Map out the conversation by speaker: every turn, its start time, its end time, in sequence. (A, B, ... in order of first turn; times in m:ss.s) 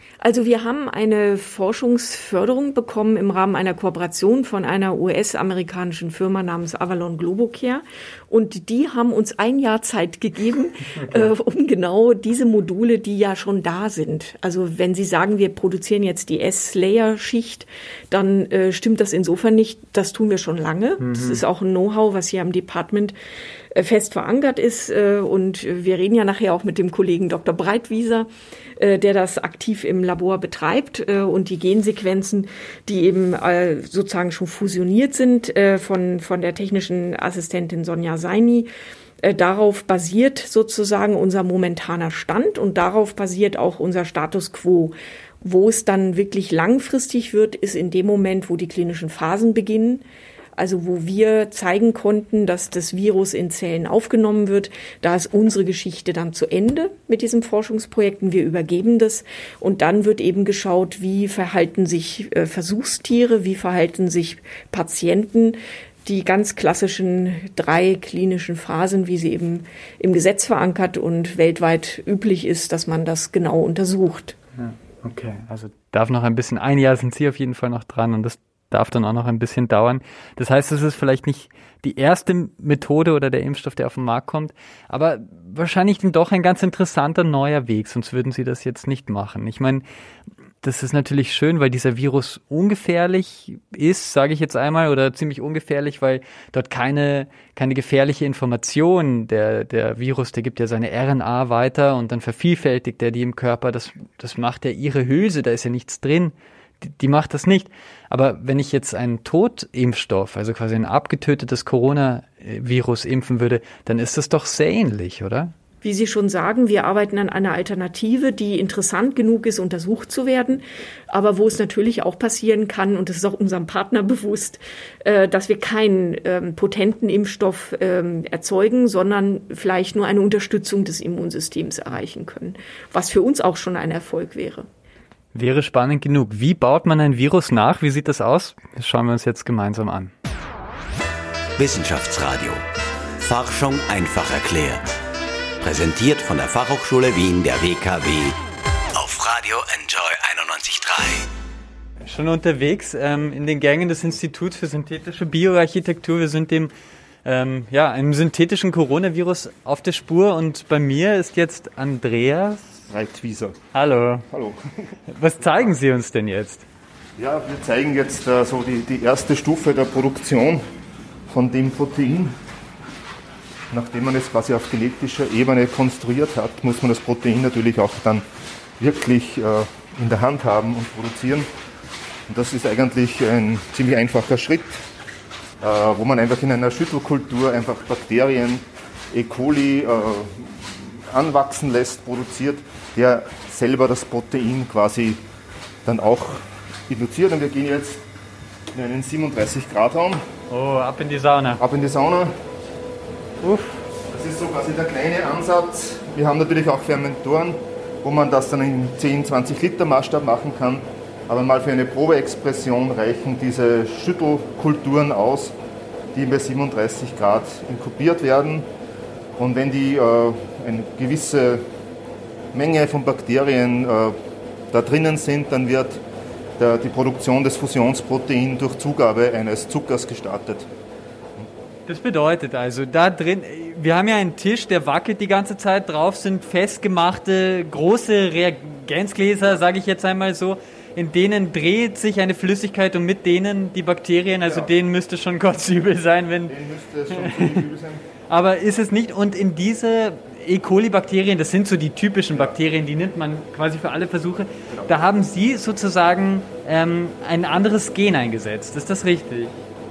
0:00.2-0:23.1 A
0:21.0-0:21.4 B
0:23.7-0:38.7 A
0:39.2-0:50.0 A
0:50.6-1:14.4 A
1:14.6-1:29.8 B
1:30.6-1:55.5 B
1:55.8-2:14.7 A
2:15.3-2:20.1 B
2:21.6-2:22.6 C
2:23.2-2:25.0 C
2:25.6-2:28.4 C
2:28.9-2:31.3 C
2:32.0-2:36.7 B
2:37.2-2:42.8 B
2:42.9-2:43.6 D
2:43.7-2:44.2 B
2:44.3-2:44.9 D
2:45.1-2:46.6 B
2:47.2-2:50.6 D
2:51.3-2:52.4 D
2:53.7-2:58.2 D
2:58.8-3:01.5 D
3:02.3-3:04.8 D
3:05.6-3:15.2 D
3:15.8-3:18.0 D
3:18.7-3:20.2 D
3:20.5-3:21.6 B
3:21.6-3:22.3 D
3:23.4-3:23.8 B
3:24.1-3:35.5 D
3:36.1-3:38.7 D
3:39.4-3:41.6 D
3:42.5-3:44.2 D
3:44.7-3:46.0 D
3:46.6-3:50.7 D
3:51.9-4:06.5 B
4:06.5-4:08.0 D
4:07.2-4:07.6 B
4:08.3-4:19.6 B
4:14.7-4:15.1 D